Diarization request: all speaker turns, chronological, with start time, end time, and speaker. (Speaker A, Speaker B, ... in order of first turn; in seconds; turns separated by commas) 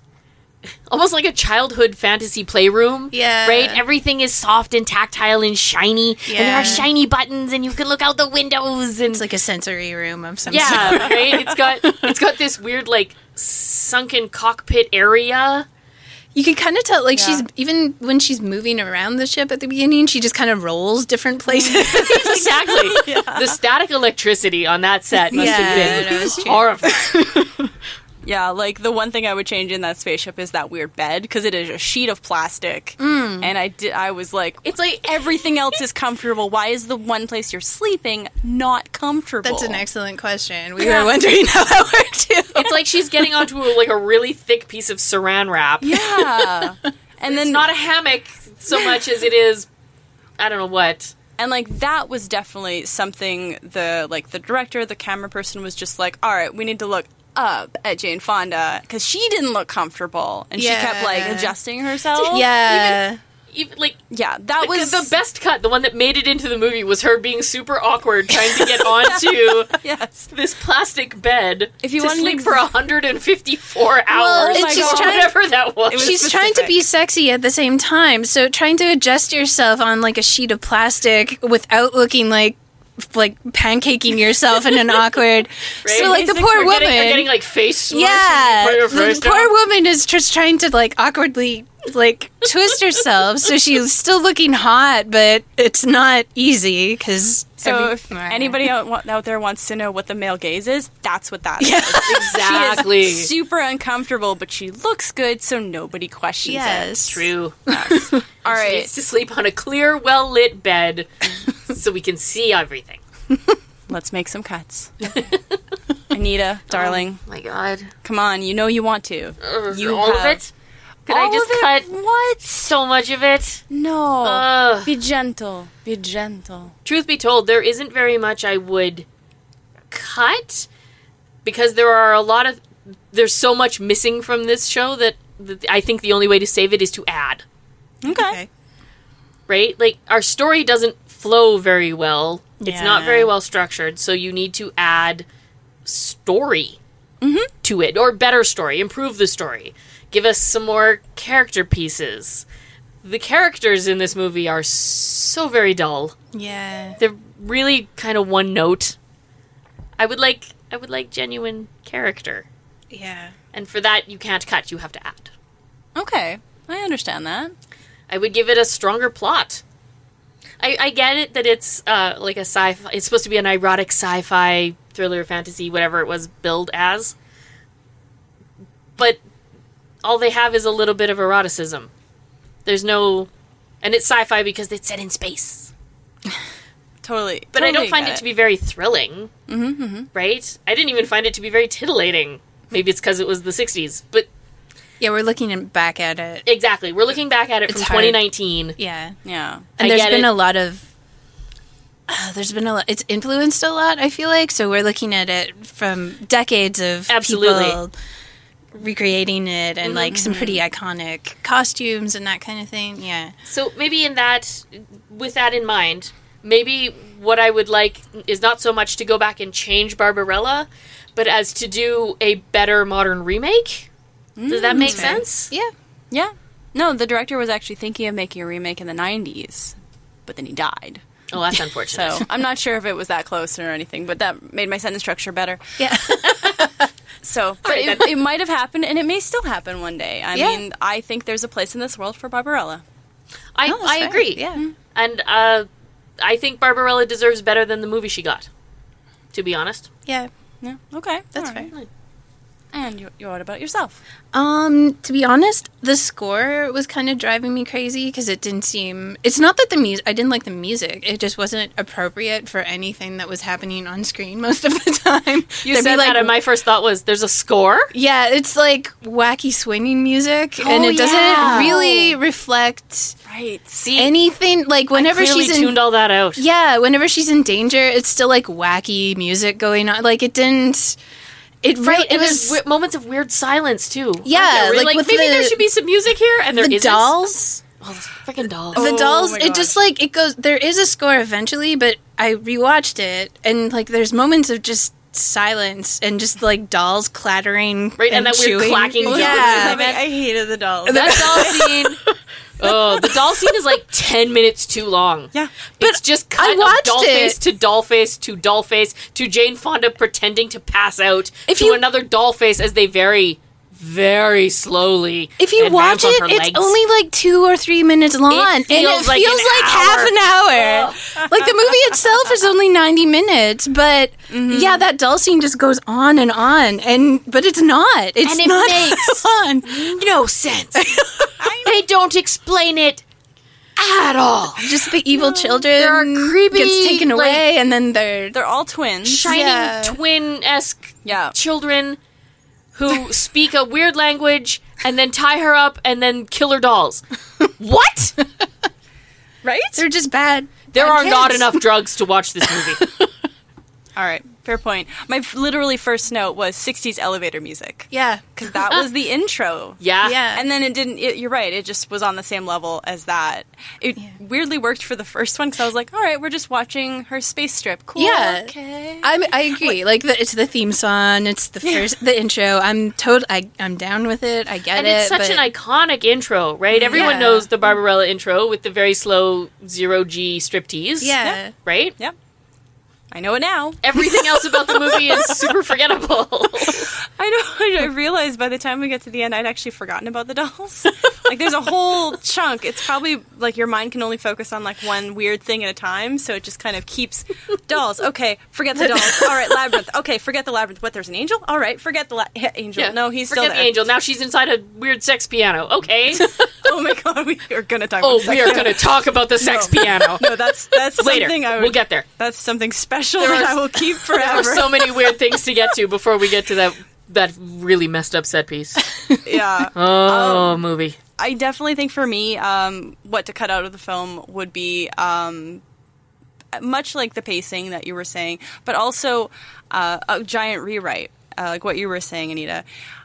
Speaker A: 0.9-9.2, Speaker B: 3.1-3.8, Speaker B: 6.2-6.9, Speaker C: 6.4-6.9, Speaker B: 9.1-12.2, Speaker A: 10.5-15.7, Speaker C: 10.6-11.1, Speaker B: 16.3-23.0, Speaker C: 17.1-17.4, Speaker C: 21.5-23.6, Speaker A: 21.9-27.1, Speaker B: 25.3-27.7, Speaker C: 25.3-26.4, Speaker C: 28.2-39.8, Speaker B: 33.0-33.5, Speaker A: 34.6-35.4, Speaker B: 39.4-42.8, Speaker A: 42.5-46.1, Speaker C: 45.8-47.7, Speaker A: 47.3-49.7, Speaker A: 50.4-51.1, Speaker C: 51.4-62.5, Speaker B: 60.5-61.5, Speaker B: 62.1-63.2, Speaker A: 62.6-63.0, Speaker A: 63.5-64.0, Speaker C: 64.1-65.1, Speaker A: 64.6-69.7, Speaker C: 68.6-70.2, Speaker A: 70.3-76.1, Speaker C: 71.8-72.7, Speaker C: 74.2-75.3, Speaker B: 74.3-75.3, Speaker C: 75.9-76.8, Speaker B: 75.9-87.3, Speaker A: 85.8-89.5, Speaker C: 85.9-86.8, Speaker B: 87.9-98.7, Speaker C: 97.6-108.9, Speaker B: 101.6-102.7, Speaker A: 102.0-103.3, Speaker B: 106.4-108.2, Speaker A: 107.0-107.6, Speaker A: 108.4-111.1, Speaker A: 111.7-113.0, Speaker C: 113.9-115.0, Speaker A: 115.0-115.4, Speaker C: 116.1-117.2, Speaker A: 116.7-117.9, Speaker C: 118.0-120.4, Speaker A: 119.4-120.5, Speaker A: 121.1-121.9, Speaker C: 121.1-122.7, Speaker A: 122.4-123.6, Speaker C: 123.7-126.7, Speaker A: 124.2-124.9, Speaker A: 126.8-129.1, Speaker A: 129.9-130.7, Speaker A: 131.4-137.4, Speaker C: 138.0-138.4, Speaker B: 138.1-138.5, Speaker A: 139.5-145.2, Speaker B: 142.6-143.3, Speaker A: 145.8-146.8, Speaker C: 147.2-147.5, Speaker A: 147.6-152.4, Speaker A: 153.0-156.1, Speaker B: 156.3-157.0, Speaker A: 157.0-158.9, Speaker A: 160.0-162.5, Speaker B: 162.9-163.3, Speaker A: 163.5-165.3, Speaker C: 165.9-167.5, Speaker A: 168.1-169.6, Speaker A: 170.6-177.1, Speaker A: 180.0-181.9, Speaker A: 182.6-183.3, Speaker A: 183.8-185.7, Speaker C: 187.0-188.2, Speaker A: 187.5-189.3, Speaker C: 189.5-190.1, Speaker A: 190.1-194.3, Speaker B: 195.0-196.4, Speaker A: 196.4-198.8, Speaker B: 197.7-198.2, Speaker B: 198.8-199.2, Speaker C: 199.2-199.7, Speaker B: 199.8-200.9, Speaker A: 199.8-200.3, Speaker B: 202.1-207.9, Speaker A: 207.1-207.8, Speaker B: 208.7-213.3, Speaker A: 209.8-210.1, Speaker C: 210.1-210.6, Speaker A: 213.5-223.9, Speaker C: 224.4-225.2, Speaker A: 224.5-225.5, Speaker B: 224.7-225.7, Speaker C: 226.1-229.7, Speaker C: 230.3-231.0, Speaker A: 231.3-232.2, Speaker C: 231.9-235.6, Speaker B: 235.8-236.9, Speaker C: 237.2-242.8, Speaker A: 237.6-238.2, Speaker B: 240.3-240.6, Speaker A: 243.5-245.7, Speaker B: 243.7-244.6, Speaker A: 246.2-248.5, Speaker A: 249.3-249.9, Speaker B: 250.1-250.3, Speaker C: 250.6-251.7, Speaker B: 251.3-251.7, Speaker C: 252.7-254.0, Speaker B: 254.3-266.4, Speaker A: 265.6-267.9, Speaker B: 267.9-273.1, Speaker A: 270.6-271.8, Speaker C: 270.7-272.1, Speaker C: 273.2-273.8, Speaker A: 273.8-274.1, Speaker B: 273.9-275.8, Speaker A: 274.9-276.4, Speaker B: 276.4-281.0, Speaker B: 281.6-282.6, Speaker A: 281.8-288.9, Speaker B: 284.2-285.6, Speaker B: 286.5-287.6, Speaker C: 288.7-289.8, Speaker B: 288.7-299.9, Speaker A: 298.0-300.0, Speaker C: 299.0-301.6, Speaker B: 300.9-303.2, Speaker A: 300.9-302.0, Speaker A: 302.6-316.7, Speaker B: 305.8-307.4, Speaker B: 311.5-311.8, Speaker B: 315.4-329.8, Speaker A: 318.3-321.1, Speaker C: 324.3-324.9, Speaker A: 328.2-330.9, Speaker B: 330.7-331.5, Speaker C: 331.4-331.8, Speaker A: 331.6-333.0, Speaker A: 333.8-334.7, Speaker B: 334.6-338.4, Speaker C: 335.1-335.7, Speaker A: 335.7-337.4, Speaker C: 338.3-339.4, Speaker A: 339.0-342.0, Speaker B: 339.2-340.0, Speaker C: 341.0-341.3, Speaker A: 342.7-347.0, Speaker A: 347.6-348.1, Speaker C: 349.4-349.8, Speaker B: 349.7-351.6, Speaker A: 350.7-352.8, Speaker B: 352.4-353.1, Speaker C: 353.9-359.8, Speaker B: 357.9-358.2, Speaker A: 359.8-360.2, Speaker B: 360.0-360.5, Speaker C: 360.3-369.8, Speaker B: 367.9-375.4, Speaker C: 371.6-371.9, Speaker A: 374.7-381.9, Speaker C: 376.7-377.2, Speaker B: 376.9-377.5, Speaker B: 381.0-381.5, Speaker C: 383.1-385.6, Speaker A: 383.8-386.9, Speaker C: 386.7-403.7, Speaker A: 402.8-406.3, Speaker C: 406.1-415.1, Speaker A: 408.0-410.2, Speaker A: 410.9-412.0, Speaker A: 413.2-413.6, Speaker A: 414.1-418.8, Speaker B: 418.9-419.2, Speaker C: 419.2-420.6, Speaker A: 419.7-420.9, Speaker C: 421.2-425.6, Speaker C: 426.5-432.6